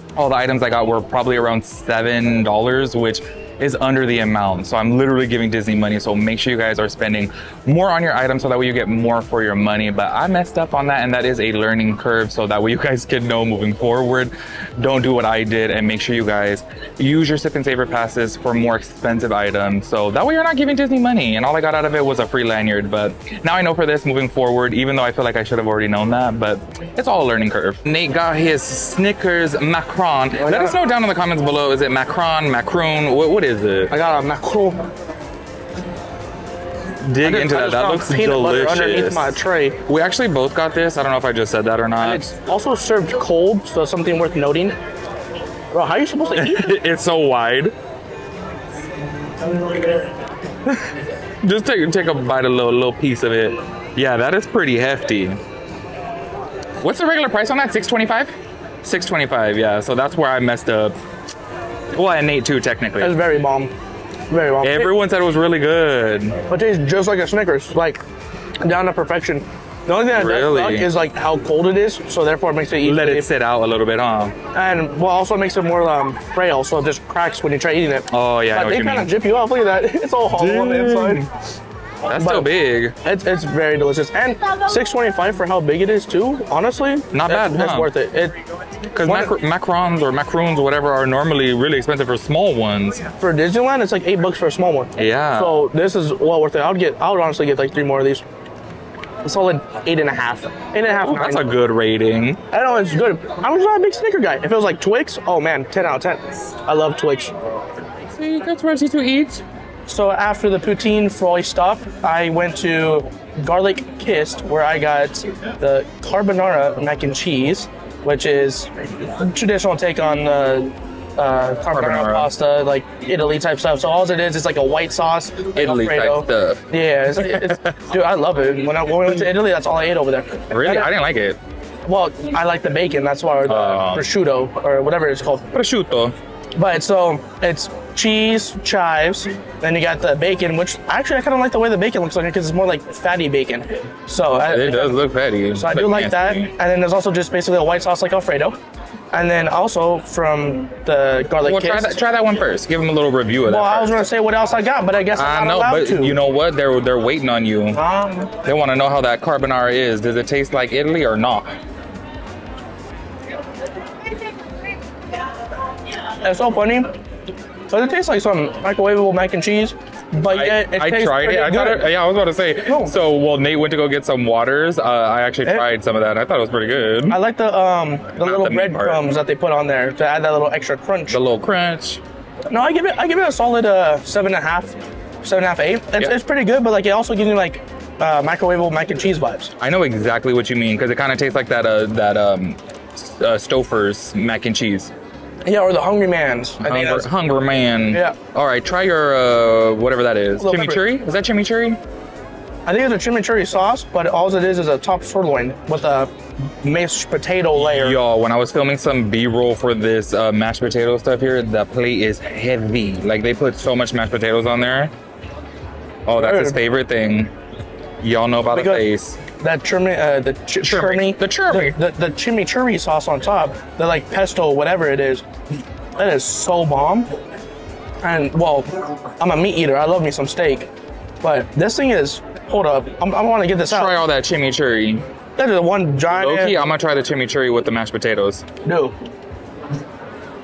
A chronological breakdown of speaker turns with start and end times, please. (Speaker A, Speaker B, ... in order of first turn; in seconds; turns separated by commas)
Speaker A: 0.2-33.9, Speaker B: 30.4-30.7, Speaker B: 33.9-34.8, Speaker A: 37.0-42.3, Speaker B: 37.2-39.8, Speaker B: 42.0-44.8, Speaker B: 45.7-46.8, Speaker A: 46.3-47.8, Speaker A: 51.4-55.4, Speaker A: 56.8-61.0, Speaker A: 61.9-63.2, Speaker B: 63.0-63.7, Speaker B: 64.3-64.9, Speaker A: 64.6-66.4, Speaker B: 66.5-68.0, Speaker B: 68.6-73.3, Speaker A: 70.1-70.9, Speaker A: 72.8-74.4, Speaker B: 74.5-81.2, Speaker A: 78.1-79.1, Speaker A: 80.3-81.3, Speaker A: 82.1-83.0, Speaker B: 82.2-82.5, Speaker B: 83.0-88.3, Speaker A: 87.1-87.9, Speaker A: 89.0-93.1, Speaker B: 89.1-89.3, Speaker B: 93.2-98.2, Speaker A: 95.0-95.6, Speaker B: 99.2-101.5, Speaker A: 101.0-102.4, Speaker B: 102.5-107.4, Speaker A: 108.1-109.4, Speaker B: 109.9-130.9, Speaker A: 121.7-122.3, Speaker A: 125.5-127.7, Speaker A: 130.5-131.4, Speaker B: 131.9-135.5, Speaker A: 133.4-134.1, Speaker A: 135.5-136.2, Speaker B: 136.6-145.0, Speaker A: 144.5-146.5, Speaker B: 145.5-148.6, Speaker B: 149.1-152.0, Speaker A: 151.4-154.0, Speaker B: 153.5-156.2, Speaker A: 155.1-157.8, Speaker B: 157.7-158.3, Speaker A: 158.4-161.5, Speaker B: 166.2-166.9, Speaker B: 167.7-171.9, Speaker A: 170.3-177.2, Speaker B: 172.7-173.0, Speaker B: 177.1-181.2, Speaker A: 178.2-179.1, Speaker A: 181.1-182.0, Speaker B: 182.5-189.5, Speaker A: 189.6-194.9, Speaker B: 195.5-197.1, Speaker A: 196.6-201.8, Speaker B: 197.9-198.2, Speaker B: 200.4-200.8, Speaker B: 202.7-206.1, Speaker B: 206.6-208.0, Speaker A: 207.6-214.9, Speaker A: 216.1-217.3, Speaker B: 216.1-216.6, Speaker A: 218.0-219.2, Speaker B: 218.5-218.8, Speaker B: 219.4-225.2, Speaker A: 220.6-221.8, Speaker B: 226.0-227.1, Speaker B: 228.0-230.7, Speaker B: 231.2-234.0, Speaker A: 233.7-235.1, Speaker B: 235.4-236.6, Speaker A: 236.1-238.5, Speaker B: 238.6-238.9